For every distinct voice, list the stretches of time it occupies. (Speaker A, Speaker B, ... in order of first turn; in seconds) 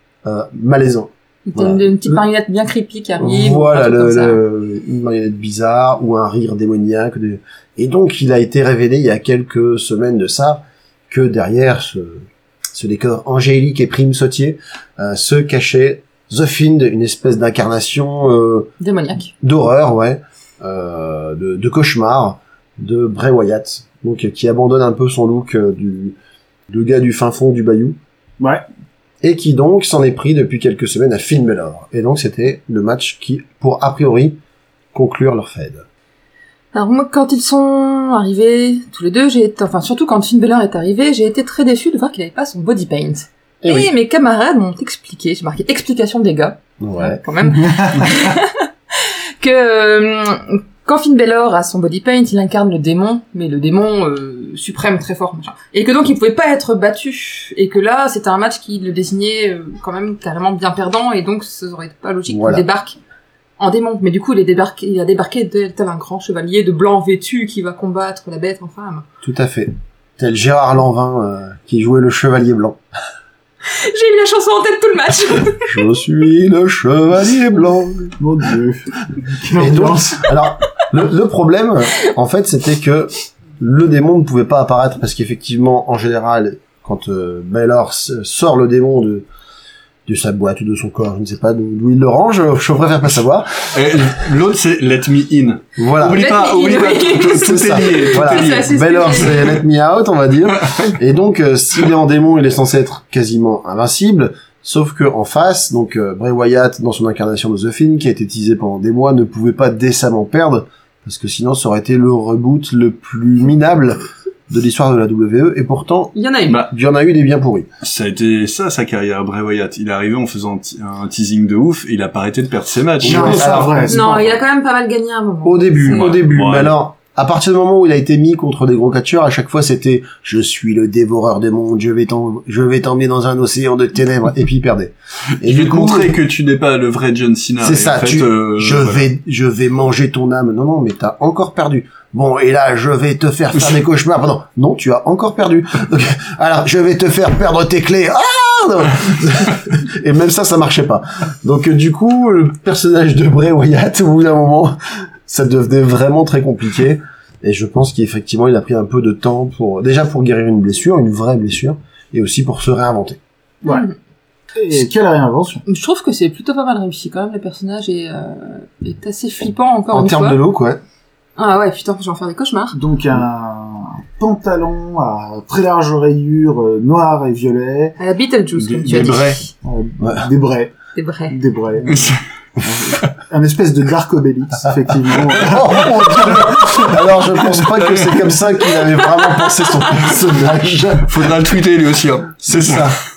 Speaker A: 0.2-2.2, 3.2-18.7, 19.4-26.1, 26.7-28.0, 29.2-34.4, 34.9-35.8, 43.6-43.9, 46.8-47.2, 62.3-62.6, 69.2-72.8, 75.7-78.2, 79.5-89.3, 90.0-93.7, 95.8-96.3, 97.4-117.7, 123.0-123.9, 125.4-136.2, 137.6-163.2, 169.9-170.8, 185.3-191.3, 192.4-193.0
Speaker B: 1.5-4.4, 18.8-19.3, 36.7-63.0, 63.6-69.0, 73.6-75.7, 96.1-99.5, 116.1-116.6, 123.9-126.1, 163.6-163.9, 165.7-170.4, 171.4-172.8, 178.0-179.4, 180.9-181.4, 189.4-189.7
Speaker C: 28.4-28.6, 47.5-48.3, 78.2-80.3, 123.0-124.3, 164.5-165.6, 172.7-178.0, 178.9-180.7, 181.3-186.4
Speaker D: 93.7-99.6, 100.7-100.9, 117.8-124.1, 125.9-126.7, 135.4-139.1, 178.6-179.4, 181.8-182.2, 185.9-186.9, 187.5-188.4, 191.0-193.0